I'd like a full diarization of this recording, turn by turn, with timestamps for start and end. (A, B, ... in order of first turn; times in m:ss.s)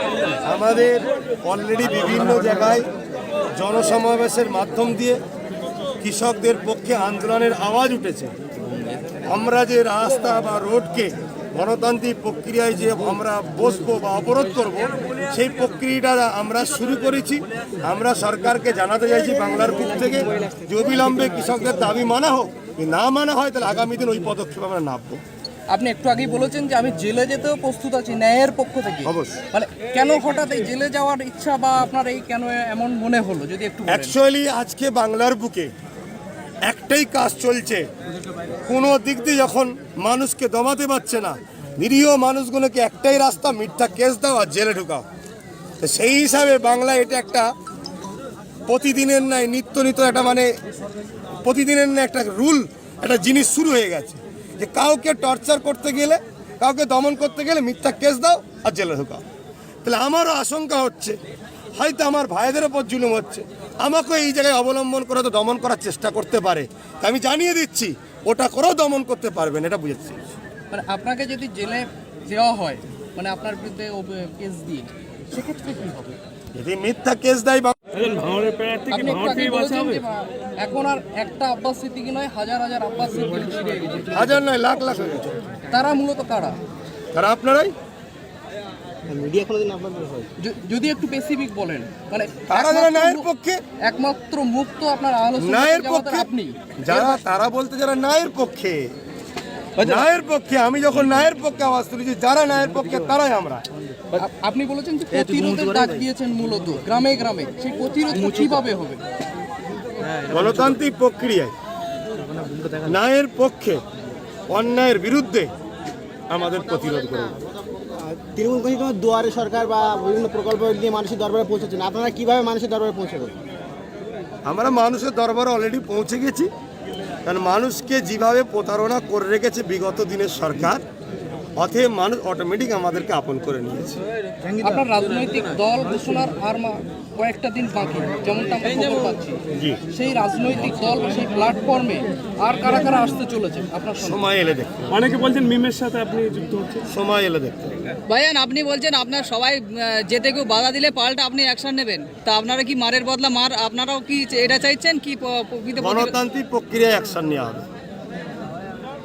0:00.4-0:02.8 A
0:03.5-0:05.2 A
0:06.0-0:08.3 A
0:09.2-0:25.2 A
0:25.7-0:34.1 B
0:29.0-0:29.4 A
0:33.9-0:35.7 A
0:36.6-0:37.9 A
0:38.6-0:45.0 A
0:45.8-0:47.5 A
0:48.7-0:50.5 A
0:51.4-0:59.2 A
0:59.8-1:01.2 A
1:01.8-1:10.2 A
1:10.7-1:16.2 B
1:16.5-1:17.8 A
1:17.9-1:20.0 C
1:18.9-1:24.2 B
1:24.1-1:25.4 A
1:25.7-1:26.6 B
1:27.1-1:27.7 A
1:29.1-1:30.3 D
1:30.4-1:33.3 B
1:32.5-1:33.6 A
1:33.8-1:37.2 B
1:35.4-1:36.3 A
1:36.8-1:38.9 A
1:39.8-1:43.6 A
1:44.1-1:49.0 B
1:50.3-1:51.5 A
1:52.7-1:53.8 A
1:54.5-1:55.5 A
1:56.3-1:57.4 A
1:57.7-2:03.4 D
2:04.4-2:06.5 A
2:07.2-2:10.8 A
2:11.6-2:14.0 A
2:14.6-2:24.2 B
2:19.5-2:19.8 A
2:24.0-2:25.0 A
2:24.9-2:26.8 C
2:26.9-2:27.7 A
2:28.1-2:36.1 E
2:35.8-2:37.6 A